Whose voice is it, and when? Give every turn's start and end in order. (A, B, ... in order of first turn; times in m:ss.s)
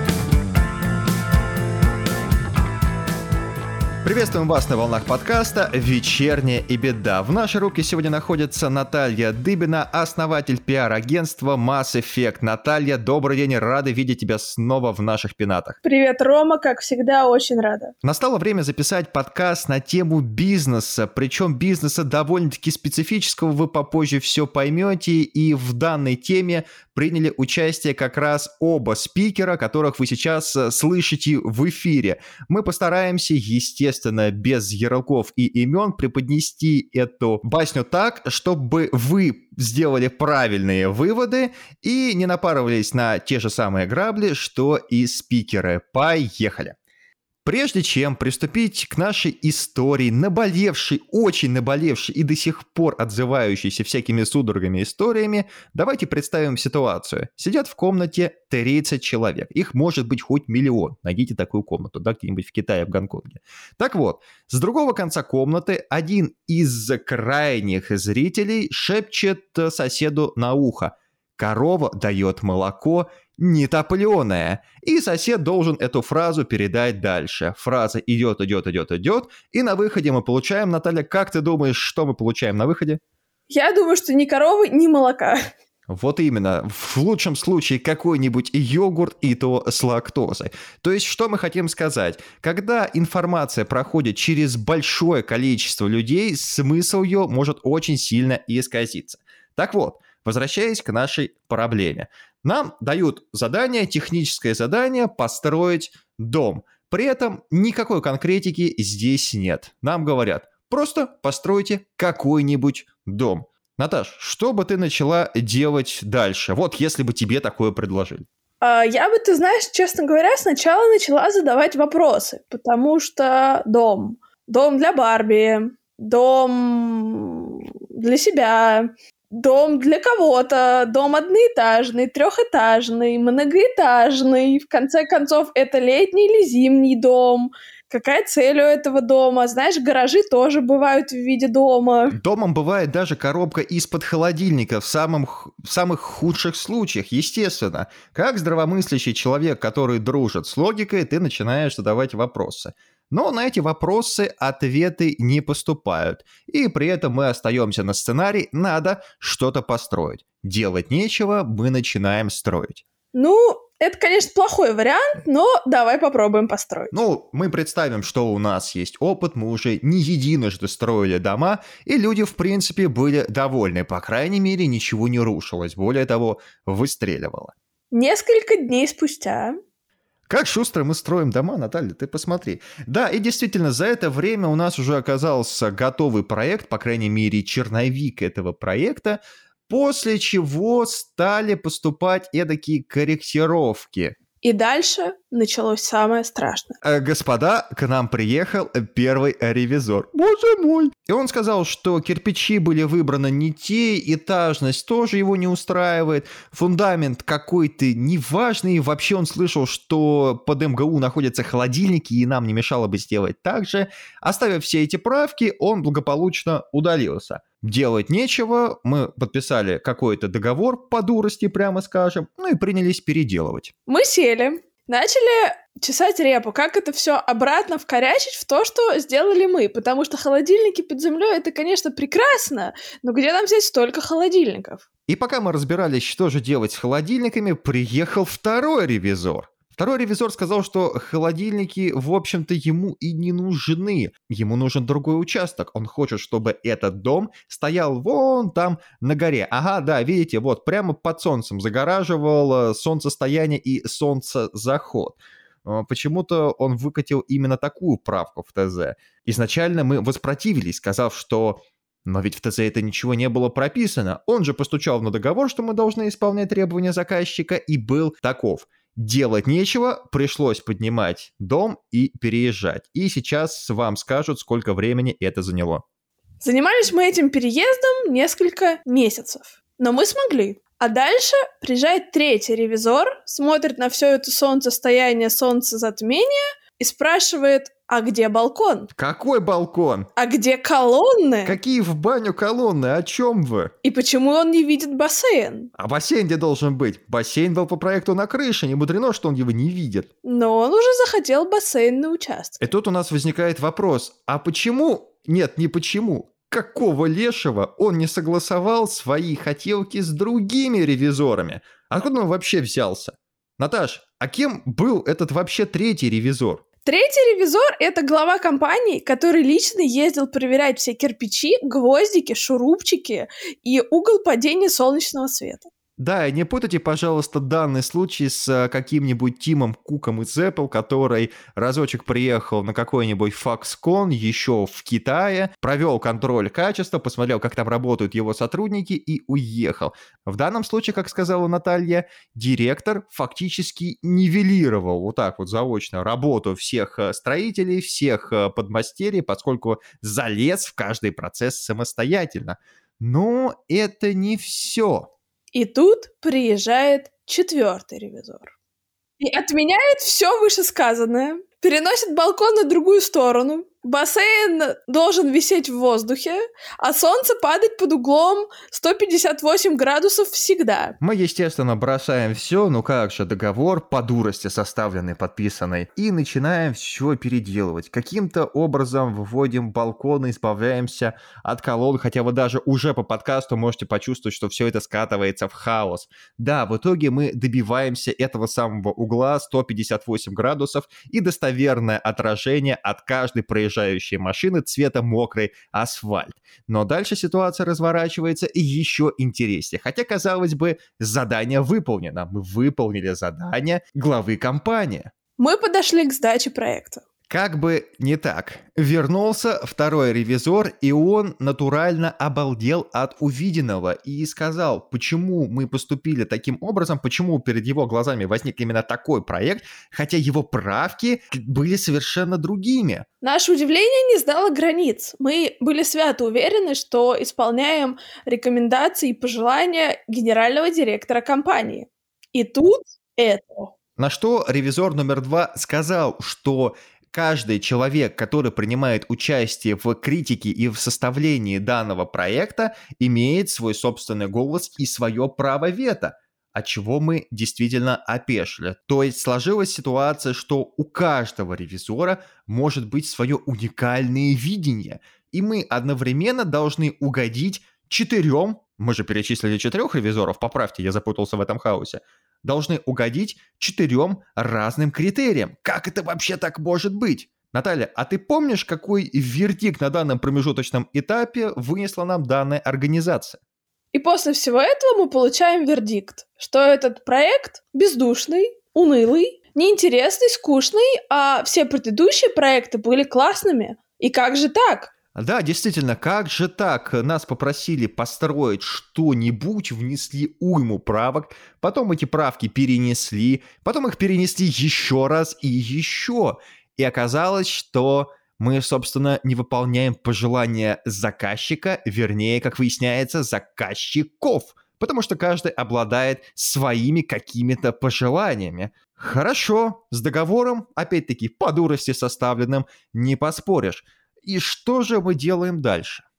0:04.0-0:15.8 A
0:15.8-0:17.9 B
0:18.0-0:46.7 A
0:47.4-1:23.0 A
1:23.5-1:25.5 B
1:25.9-1:58.2 A
1:58.6-2:22.2 B
2:22.1-2:42.8 A
2:43.1-2:46.9 B
2:46.9-2:57.5 A
2:57.9-2:59.6 B
3:00.3-3:14.1 A
3:14.4-3:16.8 B
3:16.8-3:43.7 A
3:43.9-3:54.8 B
3:55.1-4:35.8 A
4:36.4-4:48.9 B
4:48.9-4:50.1 A
4:50.2-4:51.6 B
4:51.4-4:53.7 A
4:53.8-4:55.7 B
4:55.8-5:00.1 A
5:00.2-5:02.6 B
5:02.6-5:16.6 A
5:16.8-5:25.7 B
5:26.0-5:55.1 A
5:55.5-5:58.5 B
5:59.2-6:11.0 B
6:11.0-6:45.1 A
6:45.4-6:47.0 B
6:47.3-7:03.0 A
7:03.2-7:13.7 B
7:14.0-7:53.4 A
7:53.9-8:04.9 B
8:05.1-8:36.0 A